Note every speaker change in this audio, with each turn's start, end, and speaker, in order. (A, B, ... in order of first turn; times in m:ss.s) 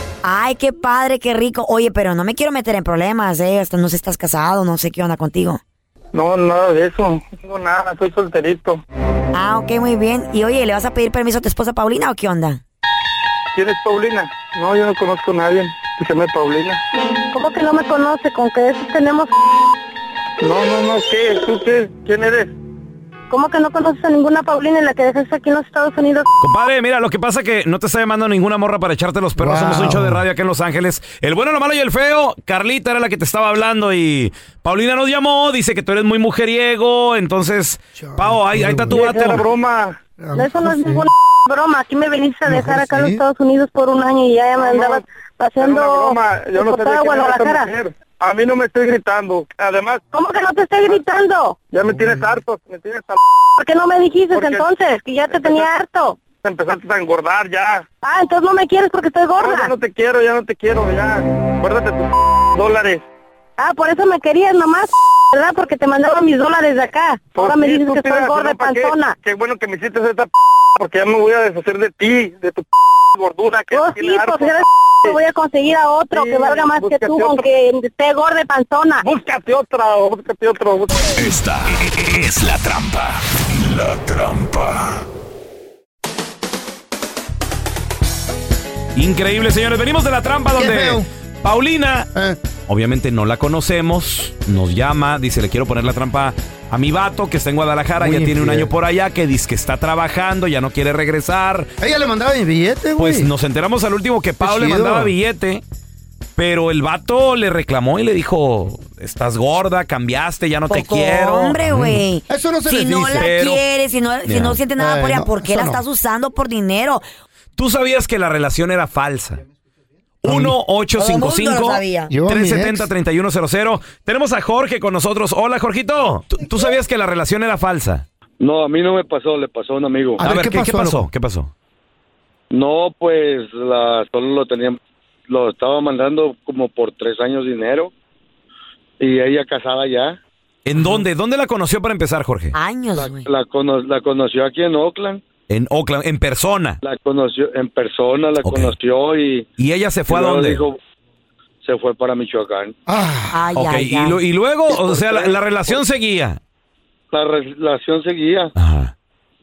0:00.2-0:05.6 A
0:06.1-0:08.8 B
0:09.3-0:12.6 A
0:13.5-0:16.8 B
0:17.3-0:19.3 C
0:20.4-0:22.5 B
0:23.3-0:26.2 C
0:26.4-0:39.4 D
0:29.4-0:30.2 E
0:38.0-0:39.2 E
0:38.9-0:40.0 B
0:40.2-0:41.1 E
0:40.3-0:47.7 C
0:42.4-0:43.2 E
0:44.6-0:45.0 B
0:45.6-0:50.1 B
0:50.1-0:51.6 C
0:51.7-0:53.2 B
0:53.6-0:56.2 C
0:54.3-0:54.6 B
0:55.3-0:55.7 B
0:56.4-0:57.8 B
0:58.0-0:59.7 C
0:59.4-1:03.0 B
1:03.6-1:09.2 C
1:07.3-1:15.2 B
1:13.7-1:19.0 C
1:16.1-1:17.4 B
1:19.0-1:21.2 B
1:21.2-1:24.9 F
1:28.9-1:32.1 D
1:30.5-1:31.1 E
1:32.7-1:41.7 D
1:38.0-1:38.7 E
1:41.8-1:43.3 E
1:43.0-1:45.6 D
1:44.4-1:45.1 E
1:46.4-1:52.0 D
1:50.7-1:57.0 A
1:52.3-1:53.3 E
1:53.2-1:53.6 D
1:54.3-1:54.6 D
1:54.8-1:55.8 E
1:57.6-1:59.4 D
2:00.2-2:08.0 D
2:00.2-2:00.5 E
2:01.0-2:02.1 A
2:02.1-2:02.9 E
2:08.4-2:10.2 G
2:10.2-2:11.1 E
2:10.2-2:11.5 D
2:12.5-2:17.9 G
2:19.0-2:20.2 G
2:20.6-2:22.5 D
2:22.5-2:23.3 A
2:23.0-2:25.2 G
2:25.5-2:26.8 D
2:26.8-2:29.5 G
2:28.4-2:28.7 D
2:29.6-2:30.6 D
2:30.1-2:30.8 G
2:31.6-2:32.7 G
2:32.9-2:33.4 E
2:33.3-2:34.2 A
2:33.6-2:36.4 D
2:34.7-2:35.8 G
2:37.1-2:38.5 G
2:38.6-2:38.9 D